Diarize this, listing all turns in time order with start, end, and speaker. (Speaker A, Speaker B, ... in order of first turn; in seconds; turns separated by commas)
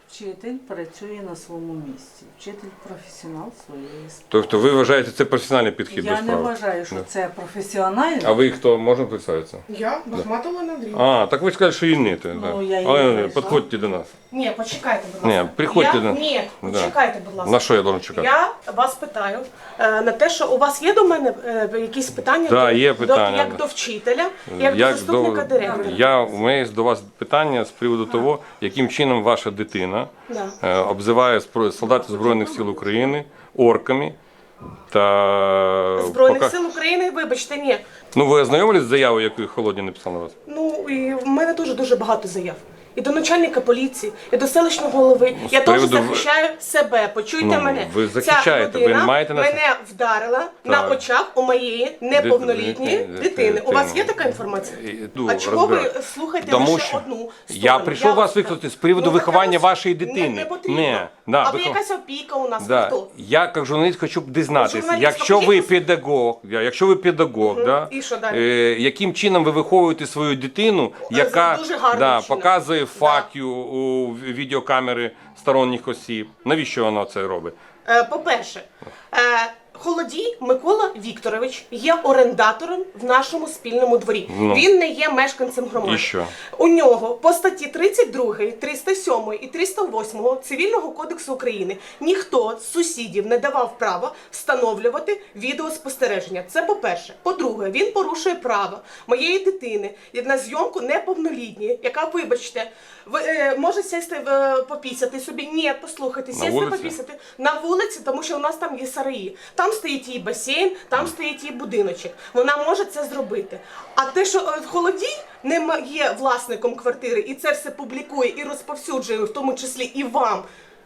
Speaker A: 0.1-4.2, Speaker B: 4.3-7.1, Speaker A: 5.9-8.4, Speaker B: 8.2-9.6, Speaker C: 9.7-11.0, Speaker B: 10.9-14.1, Speaker A: 12.3-13.7, Speaker C: 14.3-26.0, Speaker B: 15.2-18.3, Speaker B: 22.4-23.6, Speaker B: 24.5-30.1, Speaker A: 25.8-26.1, Speaker C: 30.3-30.6, Speaker B: 30.6-34.2, Speaker A: 32.2-32.8, Speaker B: 34.9-36.5, Speaker C: 36.0-37.8, Speaker B: 38.1-40.3, Speaker C: 40.4-63.1, Speaker B: 45.4-46.3, Speaker B: 47.4-49.6, Speaker B: 50.6-51.0, Speaker B: 52.1-61.8, Speaker B: 62.6-77.5, Speaker C: 64.5-65.7, Speaker C: 67.4-68.5, Speaker C: 71.0-73.3, Speaker C: 77.8-120.5, Speaker B: 84.3-84.7, Speaker B: 85.8-86.3, Speaker B: 106.3-106.9